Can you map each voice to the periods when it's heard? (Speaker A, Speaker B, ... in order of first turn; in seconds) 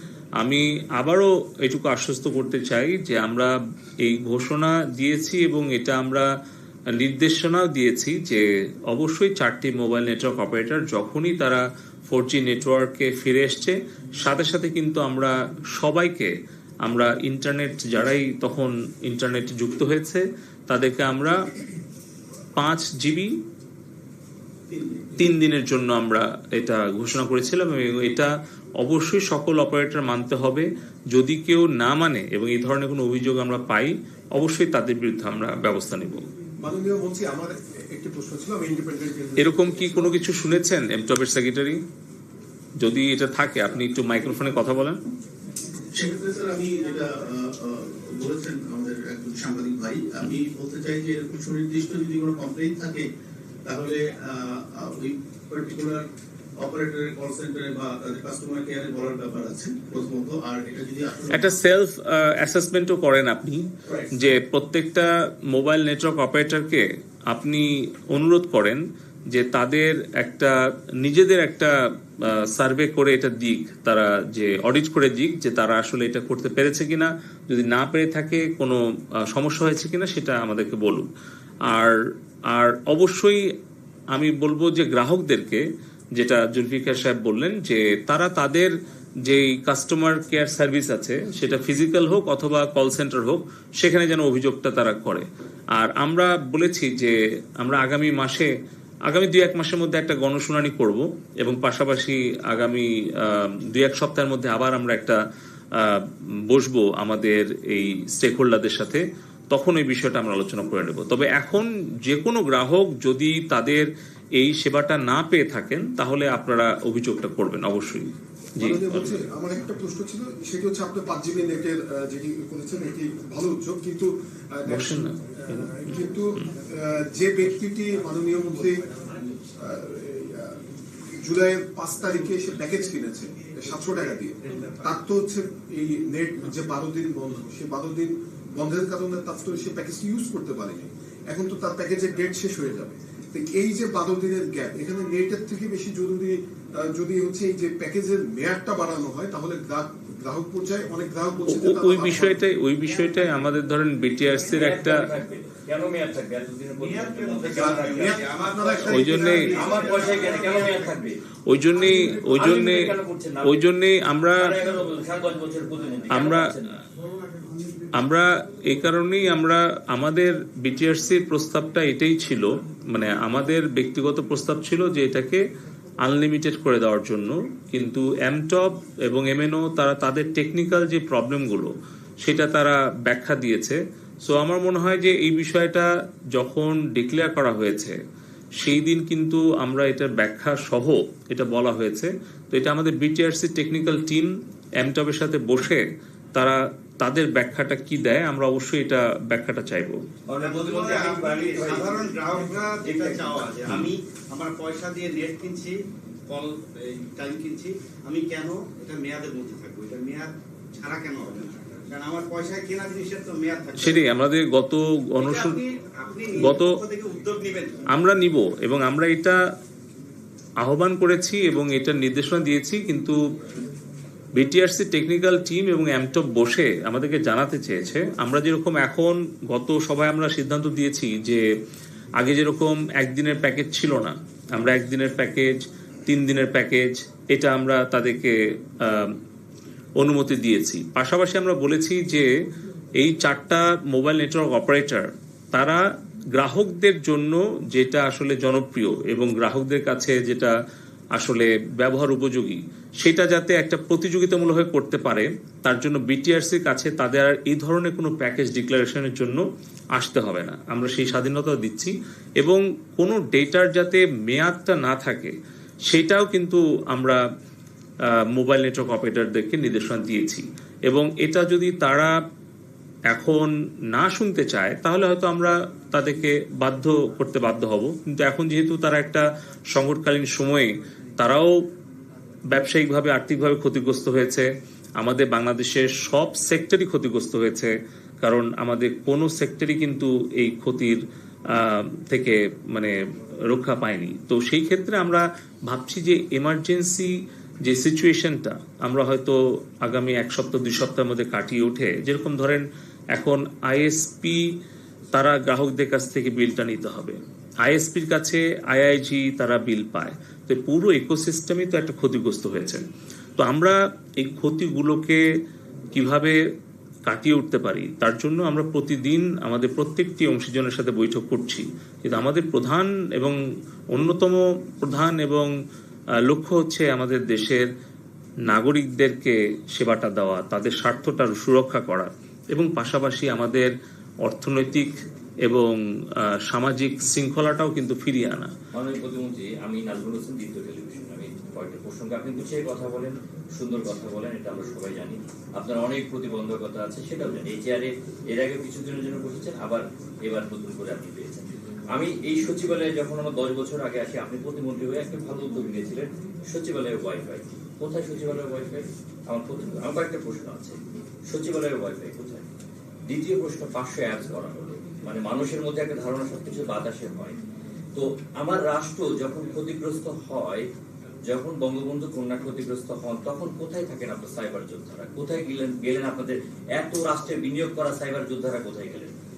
Speaker A: 0.4-6.3, 6.9-16.3, 16.8-21.5, 22.6-23.4, 25.2-36.3, 39.4-41.8, 42.8-45.0, 61.3-81.1, 81.7-82.0, 82.5-83.5, 84.1-88.7, 89.2-98.5, 99.1-105.2, 105.7-119.1, 124.7-125.7, 151.5-155.1, 158.9-159.6, 161.5-164.6, 166.1-166.5, 167.9-175.4, 176.0-188.0, 188.6-200.0, 213.8-215.6, 216.4-216.8, 217.9-219.4, 220.6-223.2, 224.3-231.5, 232.2-239.2, 240.0-242.3, 242.9-250.5, 251.1-265.4, 265.9-267.2, 268.0-272.1, 273.1-281.6, 282.5-304.6, 305.1-312.9, 313.4-315.2, 315.9-316.4, 317.1-323.4, 323.9-325.5, 326.2-327.7, 328.4-338.5
Speaker B: 24.7-25.1, 45.9-53.1, 53.7-56.0, 56.6-61.6, 63.9-64.1
Speaker C: 36.6-40.2, 118.6-128.8, 129.6-152.4, 157.5-159.8
Speaker D: 154.5-158.2, 159.5-161.2, 162.2-163.6, 164.4-166.7, 200.3-202.2, 202.8-203.4, 338.7-362.5, 363.1-367.4, 367.9-370.7, 371.2-379.1
Speaker E: 156.8-161.0, 200.4-214.1, 215.2-217.8